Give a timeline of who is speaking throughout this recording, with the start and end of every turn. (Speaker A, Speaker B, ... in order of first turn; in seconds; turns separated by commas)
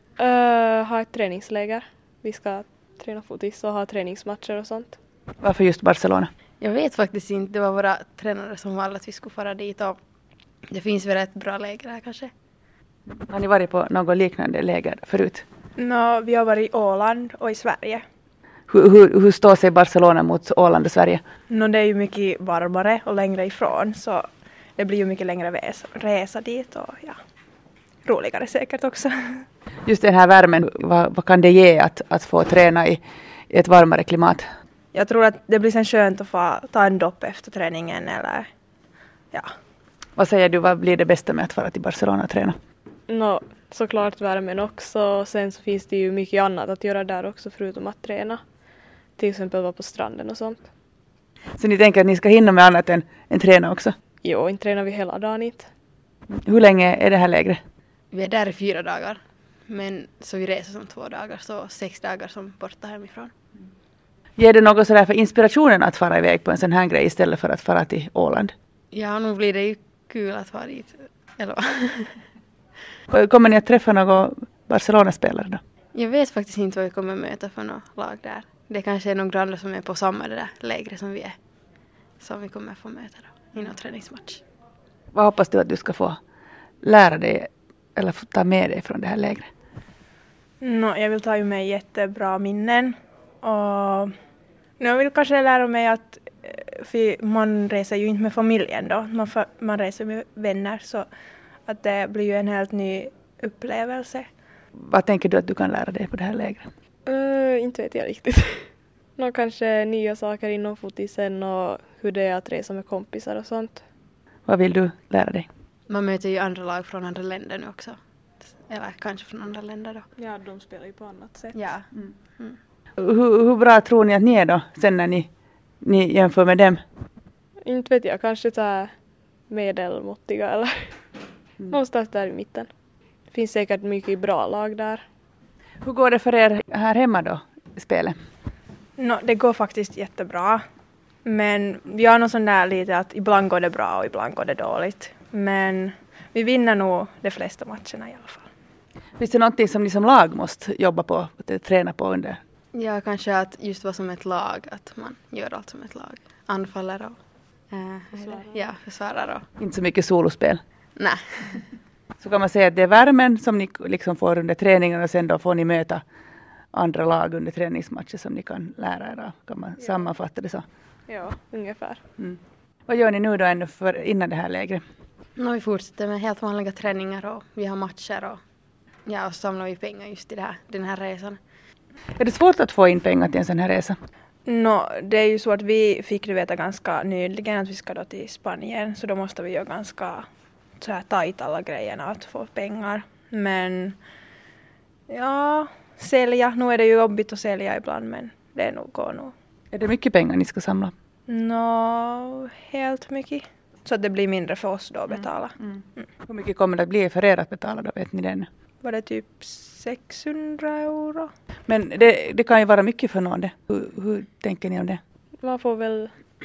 Speaker A: 0.2-5.0, Speaker B: 5.4-6.3, Speaker C: 6.6-10.0, Speaker C: 10.7-12.3, Speaker B: 13.1-15.4, Speaker D: 15.8-18.0, Speaker B: 18.7-21.2, Speaker D: 21.5-24.2, Speaker D: 24.8-27.2, Speaker D: 28.0-29.4, Speaker B: 29.8-34.5, Speaker D: 34.9-38.5, Speaker B: 40.2-42.5, Speaker A: 43.1-48.4, Speaker A: 49.2-50.7, Speaker B: 51.6-53.9, Speaker A: 54.2-55.7, Speaker B: 56.4-57.6, Speaker C: 58.1-63.3, Speaker B: 64.4-68.5, Speaker C: 68.9-72.2, Speaker B: 73.1-75.6, Speaker C: 75.9-81.3, Speaker C: 82.2-84.4, Speaker B: 85.1-86.2, Speaker B: 86.8-89.5, Speaker D: 90.6-94.1, Speaker D: 94.8-101.1, Speaker D: 101.7-104.2, Speaker B: 104.8-106.7, Speaker A: 107.1-113.8, Speaker B: 114.5-115.5, Speaker C: 115.9-118.0, Speaker C: 118.7-120.0, Speaker A: 120.2-121.6, Speaker C: 121.5-121.9, Speaker B: 123.0-125.3, Speaker B: 125.8-126.8, Speaker A: 127.7-128.9, Speaker A: 129.5-130.9, Speaker A: 131.7-132.7, Speaker A: 133.3-135.0, Speaker B: 135.8-138.2, Speaker D: 139.0-140.6, Speaker D: 141.2-148.5, Speaker B: 149.2-152.4, Speaker C: 152.7-157.2, Speaker C: 157.7-159.5, Speaker B: 159.6-160.6, Speaker C: 161.0-161.6, Speaker B: 162.2-166.0, Speaker B: 166.7-170.6, Speaker A: 171.1-172.0, Speaker B: 172.2-174.8, Speaker C: 175.4-178.4, Speaker C: 179.1-181.4, Speaker B: 182.2-184.0, Speaker D: 184.5-190.2, Speaker D: 190.8-194.0, Speaker D: 195.1-199.3, Speaker B: 199.7-200.9, Speaker D: 201.3-205.6, Speaker B: 205.6-208.5, Speaker D: 208.8-211.3, Speaker B: 211.7-215.0, Speaker A: 215.4-216.1